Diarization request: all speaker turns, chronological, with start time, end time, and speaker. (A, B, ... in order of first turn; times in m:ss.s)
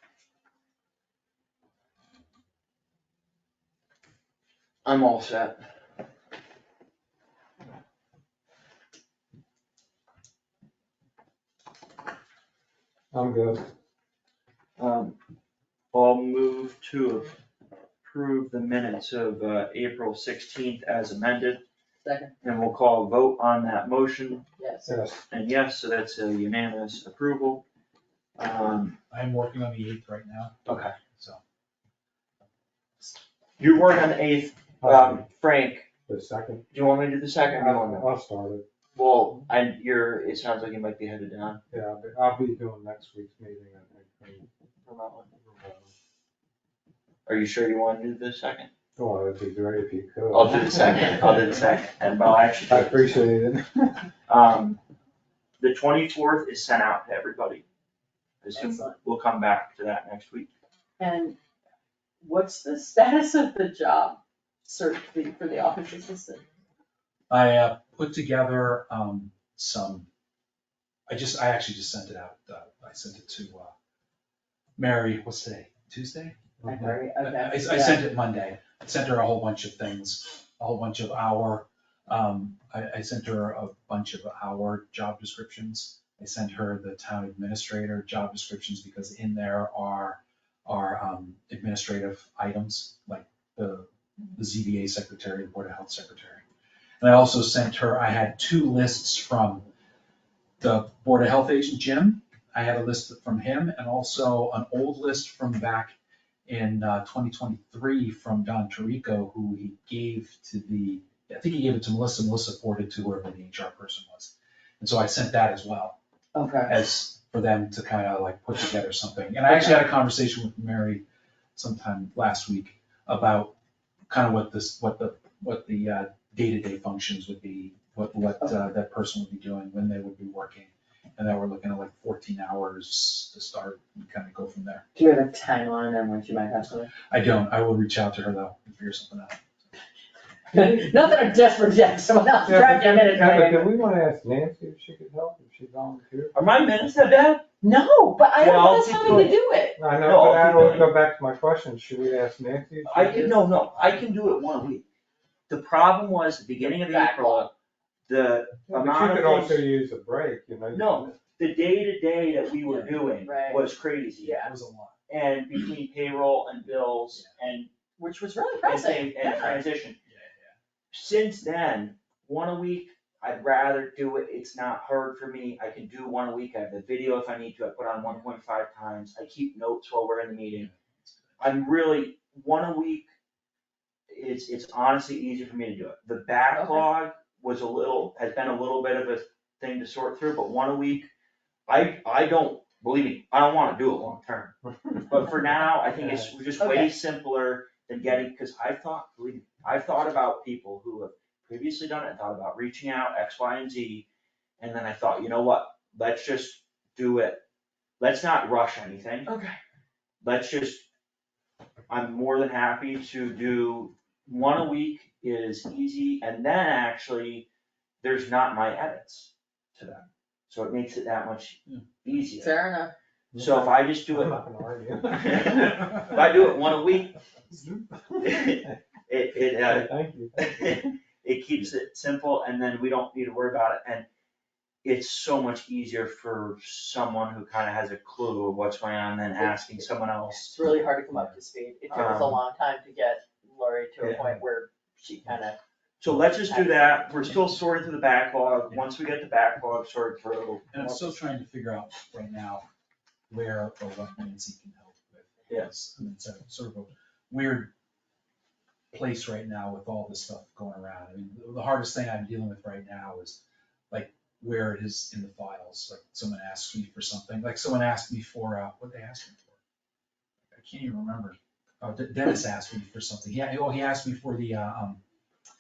0:04.8-0:05.6 A
0:13.1-0:13.6 B
0:14.8-0:15.2 A
0:15.9-0:17.3 A
0:18.0-0:21.6 A
0:22.0-0:22.3 C
0:22.4-0:24.4 A
0:24.6-0:25.0 C
0:24.9-0:25.2 B
0:25.3-0:27.6 A
0:28.4-0:29.0 A
0:29.1-0:31.4 D
0:30.7-0:31.0 A
0:33.6-0:35.9 A
0:34.8-0:35.2 B
0:36.1-0:36.7 B
0:36.7-0:38.1 A
0:37.5-0:38.6 B
0:39.0-0:41.6 A
0:41.7-0:44.5 B
0:44.8-0:45.3 A
0:45.4-0:45.9 B
0:47.2-0:48.7 A
0:49.0-0:51.1 B
0:50.3-0:53.2 A
0:52.7-0:54.0 B
0:54.3-0:54.8 A
0:55.6-0:57.6 A
0:58.4-1:00.5 A
0:58.6-0:58.9 C
1:01.0-1:01.4 C
1:02.2-1:06.4 C
1:07.3-1:10.1 D
1:11.1-1:13.7 D
1:14.8-1:16.4 D
1:16.6-1:17.0 B
1:16.6-1:18.0 C
1:17.2-1:36.4 D
1:37.0-1:39.7 D
1:40.6-1:56.0 D
1:56.3-1:56.7 C
1:56.7-2:01.0 D
1:59.5-1:59.8 C
2:01.6-2:03.5 D
2:04.1-2:14.8 D
2:14.9-2:16.9 C
2:17.1-2:19.4 D
2:20.5-2:23.7 C
2:22.4-2:26.3 B
2:26.3-2:27.4 A
2:27.6-2:29.8 C
2:28.4-2:29.3 A
2:29.0-2:33.3 B
2:30.0-2:30.9 A
2:32.8-2:34.8 A
2:32.9-2:33.4 C
2:35.5-2:37.5 A
2:36.6-2:37.5 C
2:38.1-2:39.6 A
2:38.7-2:41.2 B
2:40.7-2:44.5 A
2:42.6-2:43.0 D
2:43.2-2:43.6 C
2:44.2-2:44.9 D
2:45.1-2:47.7 A
2:48.0-2:49.6 C
2:48.6-2:50.0 A
2:49.4-2:50.6 D
2:50.9-3:00.7 A
3:00.5-3:01.4 D
3:01.4-3:03.1 A
3:04.1-3:11.1 A
3:06.5-3:06.9 C
3:11.7-3:14.5 A
3:14.6-3:15.3 B
3:15.1-3:24.0 A
3:15.9-3:16.3 B
3:16.6-3:16.9 C
3:24.6-3:27.4 A
3:28.0-3:29.4 A
3:29.3-3:29.5 C
3:30.2-3:30.8 A
3:31.9-3:37.5 A
3:38.0-3:42.6 A
3:41.7-3:42.2 D
3:42.4-3:42.9 C
3:43.3-3:46.1 B
3:43.4-3:44.4 A
3:45.1-3:47.2 A
3:47.5-3:48.7 B
3:48.2-3:54.1 A
3:49.7-3:50.8 B
3:54.8-4:00.6 A
3:59.4-3:59.8 C
4:00.5-4:05.6 C
4:01.1-4:01.4 D
4:01.9-4:02.4 A
4:04.0-4:04.4 A
4:06.0-4:11.2 A
4:06.4-4:07.3 C
4:10.7-4:12.6 D
4:13.3-4:17.7 D
4:18.9-4:29.6 D
4:30.5-4:35.0 D